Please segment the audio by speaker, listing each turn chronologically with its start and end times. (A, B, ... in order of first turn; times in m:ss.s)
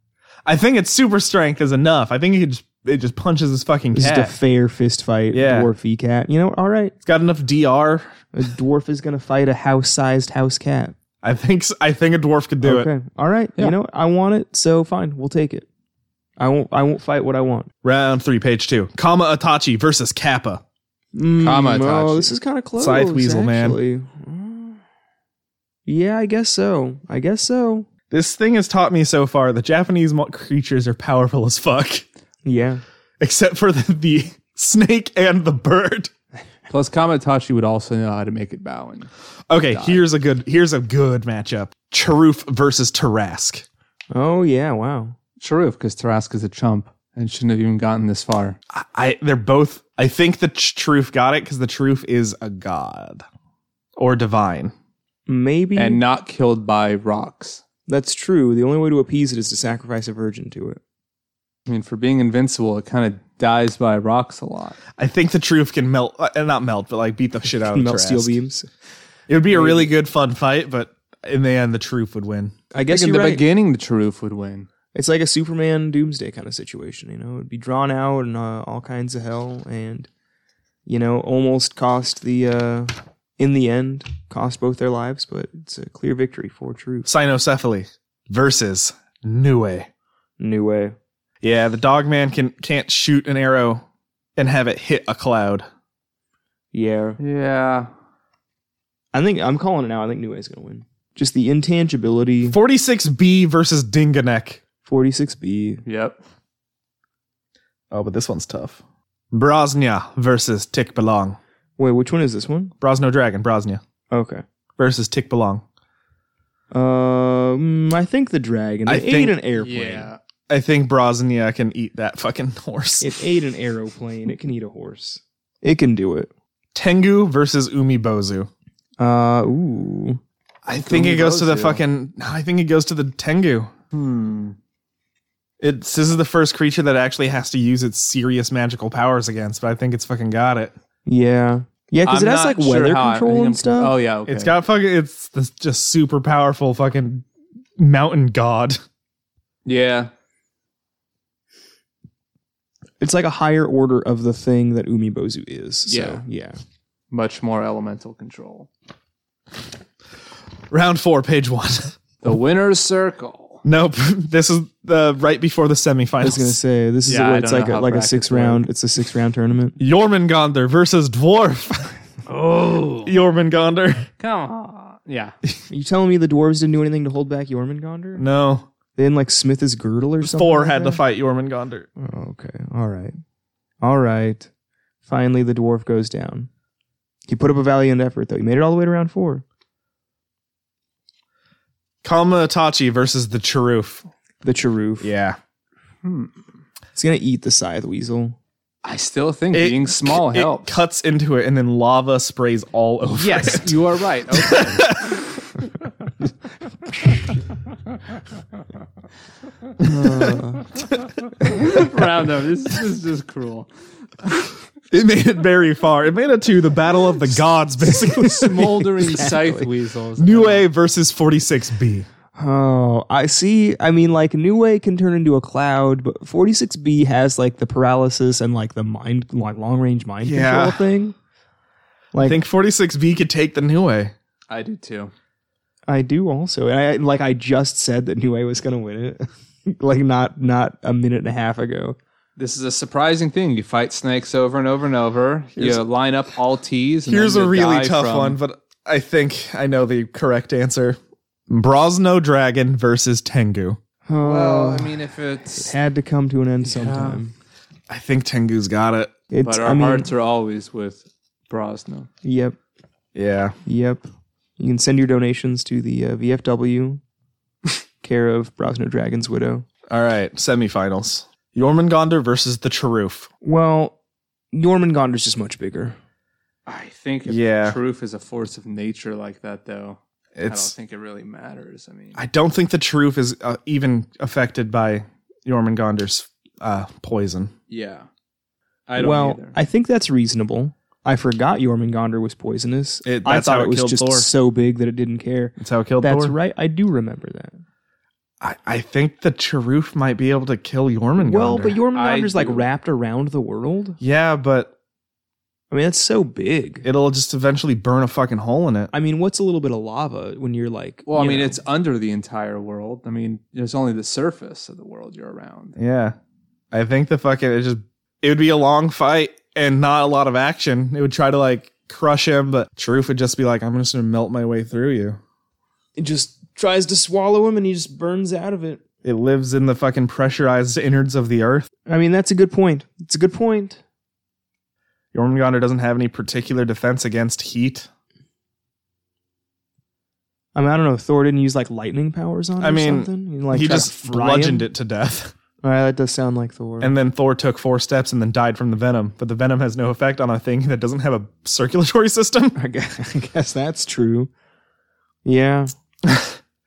0:00.4-0:04.3 A
0:03.9-0:06.9 B
0:05.3-0:05.7 A
0:07.0-0:08.1 A
0:08.3-0:11.0 B
0:11.2-0:12.9 A
0:12.6-0:15.7 B
0:16.4-0:17.7 B
0:17.8-0:20.6 A
0:21.1-0:24.8 B
0:21.4-0:22.3 C
0:22.8-0:23.8 A
0:25.8-0:27.9 B
0:28.1-0:32.0 A
0:32.4-0:32.8 B
0:33.2-0:36.1 A
0:36.7-0:39.1 C
0:39.5-0:43.6 A
0:39.7-0:40.0 C
0:44.1-0:45.2 B
0:45.4-0:48.6 C
0:48.7-0:53.2 A
0:54.0-0:54.7 A
0:55.3-0:56.0 B
0:55.8-0:57.6 C
0:57.9-1:00.8 B
1:01.7-1:04.8 C
1:05.0-1:08.3 A
1:07.6-1:08.7 B
1:09.3-1:12.5 A
1:09.5-1:09.9 B
1:12.7-1:13.4 B
1:12.9-1:14.7 C
1:14.9-1:20.1 B
1:20.8-1:27.1 B
1:27.0-1:29.9 A
1:30.4-1:31.0 B
1:31.4-1:33.8 A
1:34.4-1:35.7 A
1:36.7-1:37.2 B
1:37.2-1:37.9 C
1:39.1-1:42.6 B
1:42.5-1:44.6 A
1:44.8-1:45.8 B
1:45.8-1:46.2 C
1:47.9-1:48.8 A
1:49.3-1:51.4 A
1:51.8-1:52.7 B
1:52.8-1:53.8 A
1:54.1-1:54.4 B
1:54.8-1:55.6 A
1:56.7-2:00.1 B
1:58.8-1:59.4 A
1:59.6-2:00.2 C
2:00.5-2:03.1 A
2:03.0-2:06.3 B
2:06.7-2:08.5 A
2:09.0-2:10.2 B
2:10.6-2:13.7 A
2:10.7-2:11.8 C
2:13.9-2:14.6 C
2:15.6-2:20.7 A
2:21.0-2:23.9 B
2:22.0-2:24.5 C
2:24.3-2:27.2 A
2:27.8-2:28.8 A
2:29.6-2:30.1 C
2:33.0-2:36.6 B
2:35.9-2:36.2 C
2:37.1-2:38.7 C
2:40.7-2:41.9 A
2:42.2-2:43.6 C
2:43.6-2:46.6 A
2:46.2-2:49.8 B
2:47.0-2:48.7 C
2:49.8-2:52.0 A
2:52.3-2:53.1 C
2:53.0-2:54.1 A
2:54.2-2:55.3 C
2:55.7-2:58.2 B
2:58.2-2:58.7 A
2:59.0-3:01.0 B
3:00.2-3:01.9 A
3:02.0-3:03.2 B
3:03.8-3:04.5 B
3:05.0-3:06.5 B
3:07.3-3:09.4 B
3:12.0-3:14.1 A
3:14.4-3:15.1 B
3:15.0-3:15.4 A
3:16.0-3:16.3 C
3:16.9-3:18.4 B
3:18.8-3:20.8 C
3:19.5-3:23.7 A
3:23.1-3:25.2 C
3:24.3-3:25.2 A
3:29.8-3:30.6 B
3:31.4-3:33.7 C
3:34.9-3:38.7 A
3:38.0-3:40.7 C
3:38.4-3:39.7 B
3:40.2-3:42.0 A
3:42.4-3:51.2 B
3:50.2-3:50.8 A
3:52.1-3:52.4 B
3:52.2-3:54.1 A
3:54.5-3:55.1 C
3:55.9-4:02.0 B
4:02.4-4:08.4 C
4:05.6-4:05.8 A
4:07.1-4:11.0 A
4:11.5-4:13.8 A
4:14.0-4:15.0 B
4:14.2-4:15.8 C
4:15.6-4:17.3 B
4:16.6-4:17.2 C
4:17.9-4:19.1 A
4:19.3-4:20.1 B
4:19.4-4:22.1 C
4:22.2-4:22.6 B
4:23.1-4:23.6 A
4:23.6-4:24.0 B
4:24.6-4:27.0 B
4:28.0-4:29.6 B
4:29.9-4:33.3 A
4:33.4-4:33.9 B
4:34.5-4:36.0 B
4:36.7-4:42.2 C
4:37.2-4:37.8 A
4:40.4-4:40.7 A
4:42.2-4:47.5 A
4:47.7-4:48.1 C
4:48.9-4:49.6 C
4:49.0-4:57.6 B
4:53.0-4:54.3 A
4:55.6-4:56.3 A
4:58.4-5:01.8 A
5:01.2-5:04.0 B
5:01.9-5:02.6 C
5:04.0-5:04.7 A
5:05.7-5:06.8 B
5:06.8-5:08.9 A
5:08.9-5:11.6 B
5:11.1-5:15.8 C
5:15.8-5:16.2 A
5:16.7-5:25.2 A
5:26.0-5:28.8 B
5:29.0-5:31.7 A
5:31.8-5:33.8 B
5:35.1-5:37.9 A
5:40.5-5:44.7 B
5:42.6-5:45.3 A
5:45.6-5:46.9 B
5:46.8-5:52.6 A
5:52.5-5:54.3 B
5:55.2-5:55.7 B